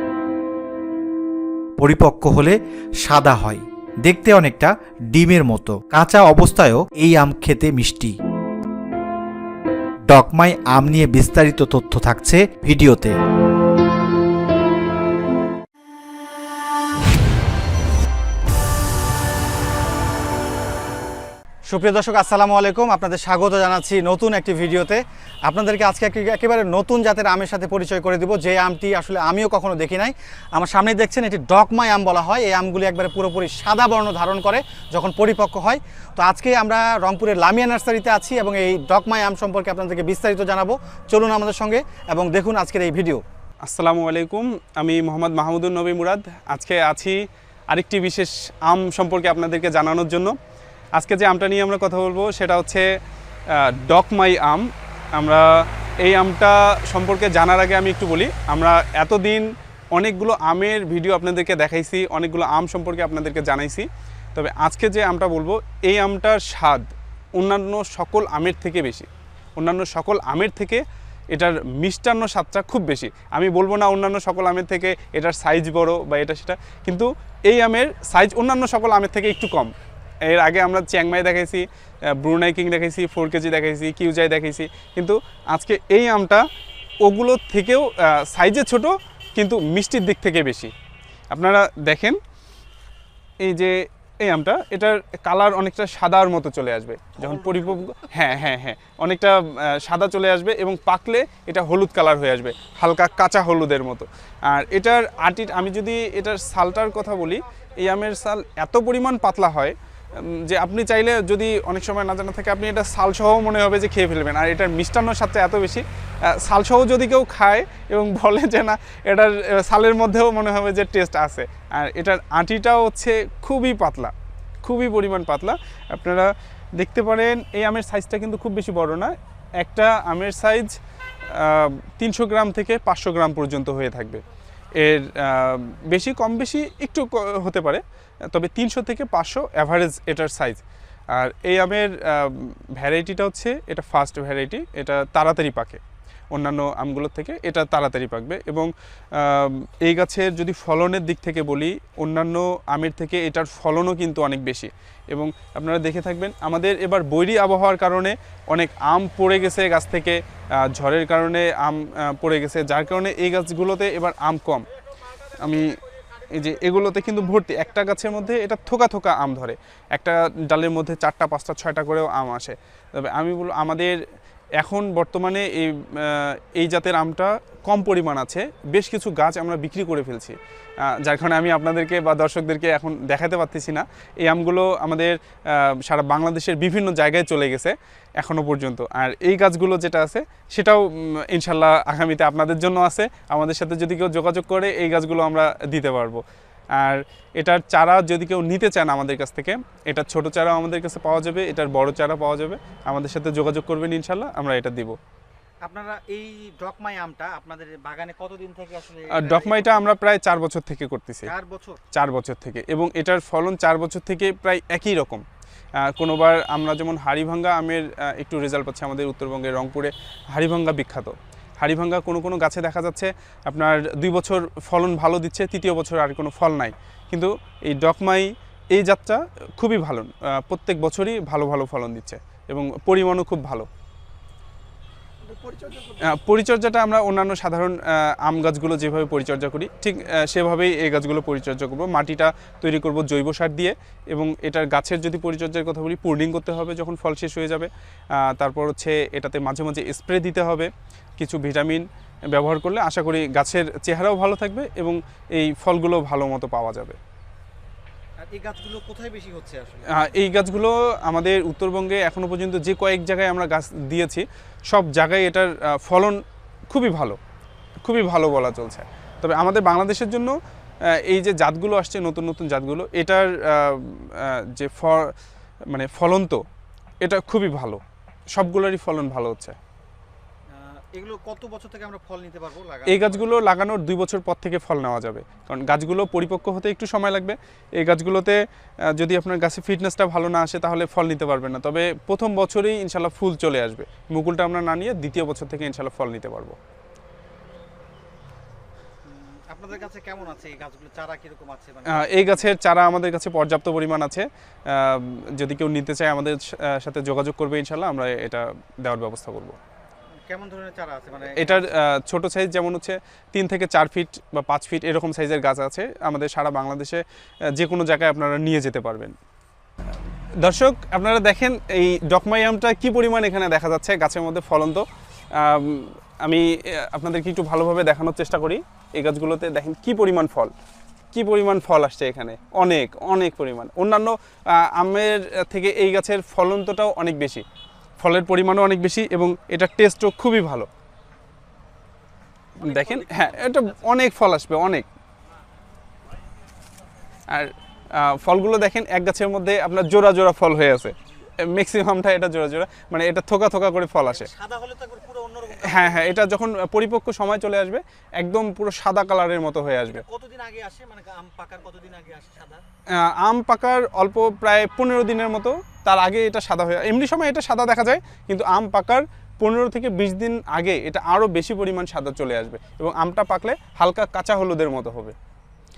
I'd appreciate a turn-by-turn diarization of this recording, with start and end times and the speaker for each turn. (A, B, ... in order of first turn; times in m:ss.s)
0:01.8-0:08.2 A
0:10.1-0:13.2 A
0:21.7-0:43.2 B
0:43.7-0:47.2 C
0:47.7-0:50.4 C
0:51.0-0:52.9 C
0:53.5-1:10.8 C
1:11.3-1:19.7 C
1:20.3-1:21.6 C
1:22.2-1:26.4 C
1:27.0-1:30.7 C
1:31.3-1:32.2 C
1:33.4-2:10.8 C
1:37.2-1:37.8 B
2:11.3-2:14.2 C
2:14.8-2:20.6 C
2:21.2-2:25.8 C
2:26.3-2:44.7 C
2:45.4-2:45.7 C
2:46.3-2:54.0 C
2:54.6-3:00.4 C
3:00.9-3:16.2 C
3:16.8-3:25.0 C
3:25.6-3:29.9 B
3:29.2-3:31.3 C
3:31.2-3:31.8 B
3:31.9-3:35.2 C
3:35.8-3:53.7 C
3:55.3-3:56.0 B
3:56.1-4:07.7 C
4:08.2-4:17.0 C
4:18.2-4:19.9 B
4:19.9-4:26.2 C
4:26.7-4:27.2 C
4:27.8-4:30.4 C
4:31.1-4:35.1 C
4:35.7-4:36.4 C
4:37.0-4:37.8 C
4:38.3-4:39.6 C
4:40.5-4:43.3 B
4:42.9-4:48.4 C
4:48.9-4:56.6 C
4:59.0-5:02.5 B
5:01.9-5:09.6 C
5:10.3-5:11.6 B
5:11.4-5:17.0 C
5:17.6-5:19.1 C
5:20.4-5:30.5 C
5:31.1-5:37.4 C
5:38.0-5:40.7 C
5:42.6-5:44.9 C
5:42.6-5:43.8 B
5:47.3-5:54.3 C
5:54.1-5:56.1 B
5:55.6-6:00.0 C
5:59.9-6:02.6 B
6:03.0-6:15.2 C